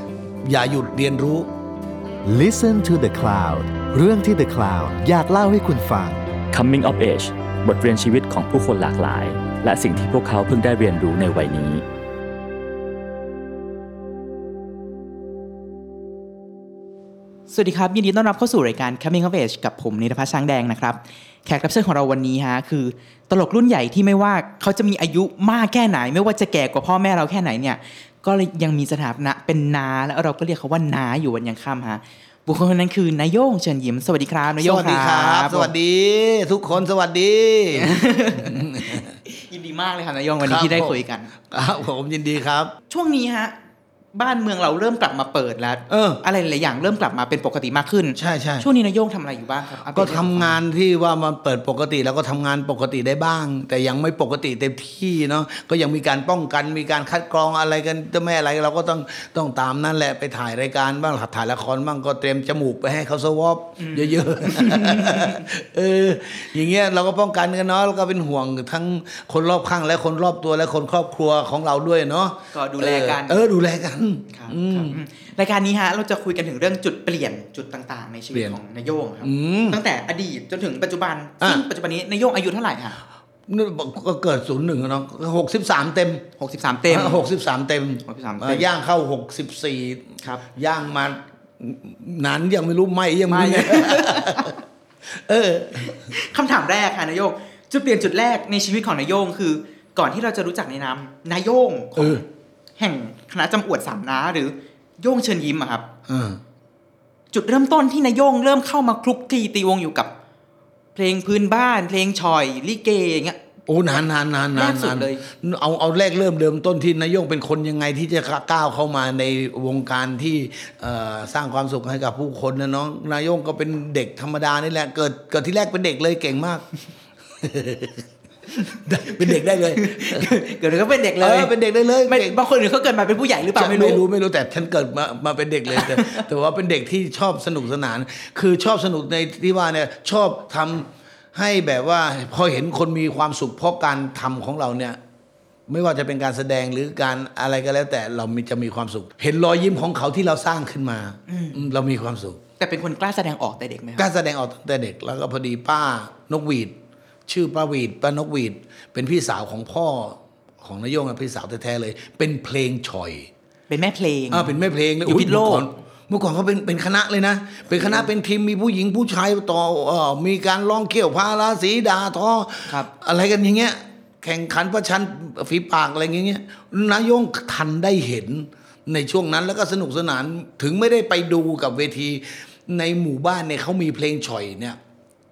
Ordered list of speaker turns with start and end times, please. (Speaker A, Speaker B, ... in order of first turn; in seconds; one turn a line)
Speaker A: 0.4-1.5
Speaker B: 2.2-6.3
Speaker C: 6.5-11.8
Speaker D: 17.5-35.7
Speaker A: 34.6-39.2
Speaker D: 37.8-41.3
Speaker A: 40.4-40.9
Speaker A: 41.5-42.7
Speaker D: 42.9-43.5
Speaker D: 44.1-50.6
Speaker A: 45.9-46.2
Speaker A: 48.2-48.7
Speaker A: 49.9-75.0
Speaker D: 63.8-65.4
Speaker D: 72.5-73.4
Speaker D: 74.3-83.0
Speaker A: 78.3-78.6
Speaker A: 79.2-79.8
Speaker A: 83.5-86.2
Speaker D: 86.4-87.2
Speaker A: 86.9-94.5
Speaker D: 88.1-88.7
Speaker D: 93.3-94.5
Speaker A: 95.1-96.1
Speaker D: 95.9-102.2
Speaker A: 102.0-102.2
Speaker D: 102.8-105.8
Speaker A: 106.1-106.4
Speaker D: 107.3-110.1
Speaker D: 110.9-113.4
Speaker A: 113.7-126.7
Speaker D: 114.5-115.2
Speaker A: 127.4-128.1
Speaker A: 128.6-130.3
Speaker D: 129.2-131.5
Speaker A: 131.2-132.3
Speaker D: 132.1-134.0
Speaker A: 133.6-145.0
Speaker D: 135.7-136.2
Speaker A: 145.7-152.4
Speaker D: 151.3-151.6
Speaker D: 152.6-154.1
Speaker A: 154.0-156.8
Speaker A: 157.3-163.3
Speaker D: 163.7-164.5
Speaker A: 164.3-184.8
Speaker D: 165.1-165.7
Speaker D: 167.8-168.1